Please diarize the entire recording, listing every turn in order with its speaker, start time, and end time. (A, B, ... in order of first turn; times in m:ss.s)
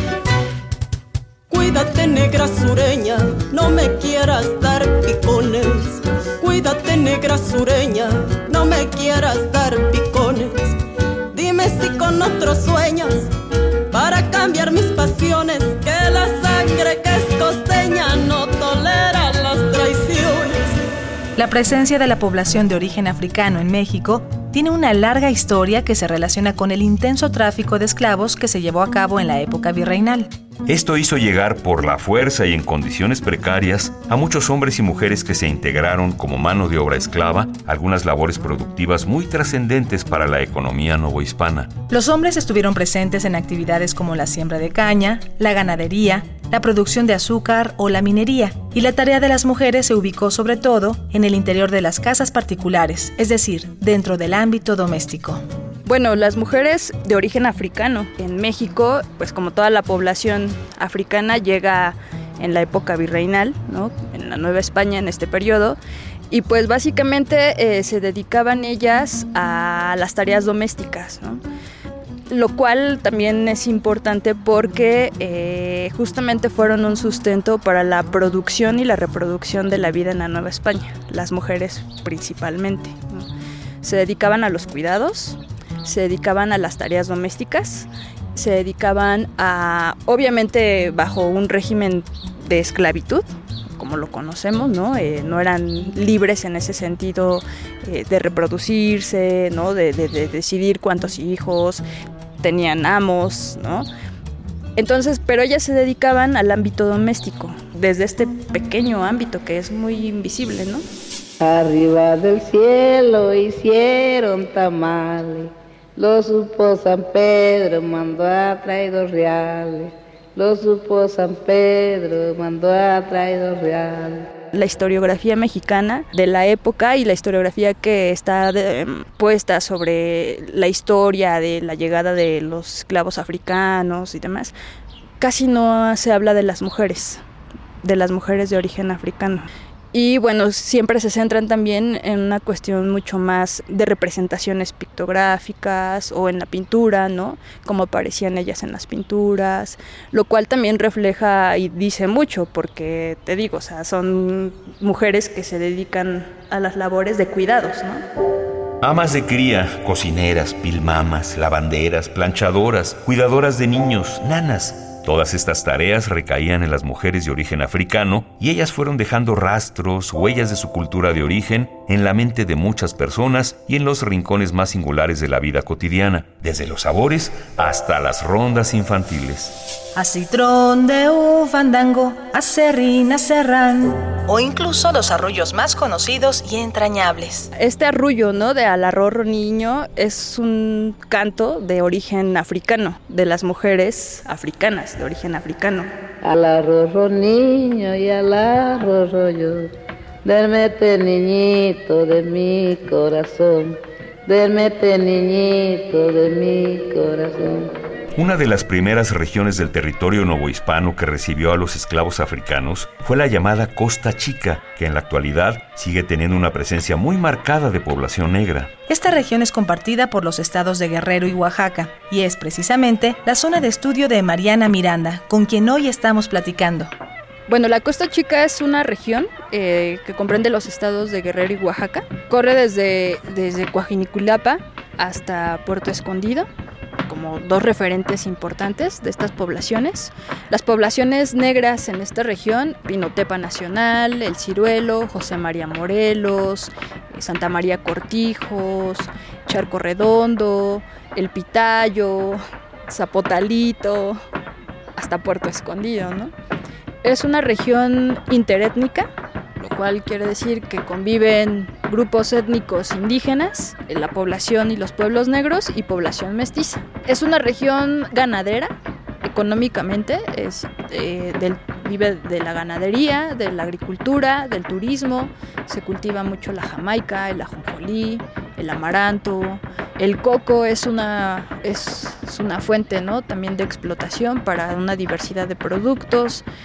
0:01.5-0:10.7 A
0:11.3-0:13.2 A
0:13.9-0:20.7 A
0:21.4-0:30.3 B
0:30.7-0:41.7 C
0:41.9-0:55.4 B
0:55.8-1:05.8 D
1:06.3-1:11.4 D
1:12.3-1:23.3 D
1:23.8-1:33.2 D
1:33.8-1:41.8 D
1:42.4-1:43.9 D
1:44.8-1:50.8 D
1:51.4-2:04.3 E
2:04.5-2:14.5 D
2:15.2-2:17.2 D
2:17.8-2:38.0 D
2:38.8-2:59.5 C
3:00.0-3:07.5 B
3:07.6-3:15.9 D
3:16.2-3:19.7 E
3:20.2-3:27.7 E
3:28.1-3:38.7 C
3:38.9-3:46.9 B
3:47.5-3:56.5 D
3:57.0-4:14.2 D
4:15.0-4:16.3 D
4:17.0-4:28.7 D
4:29.2-4:46.4 D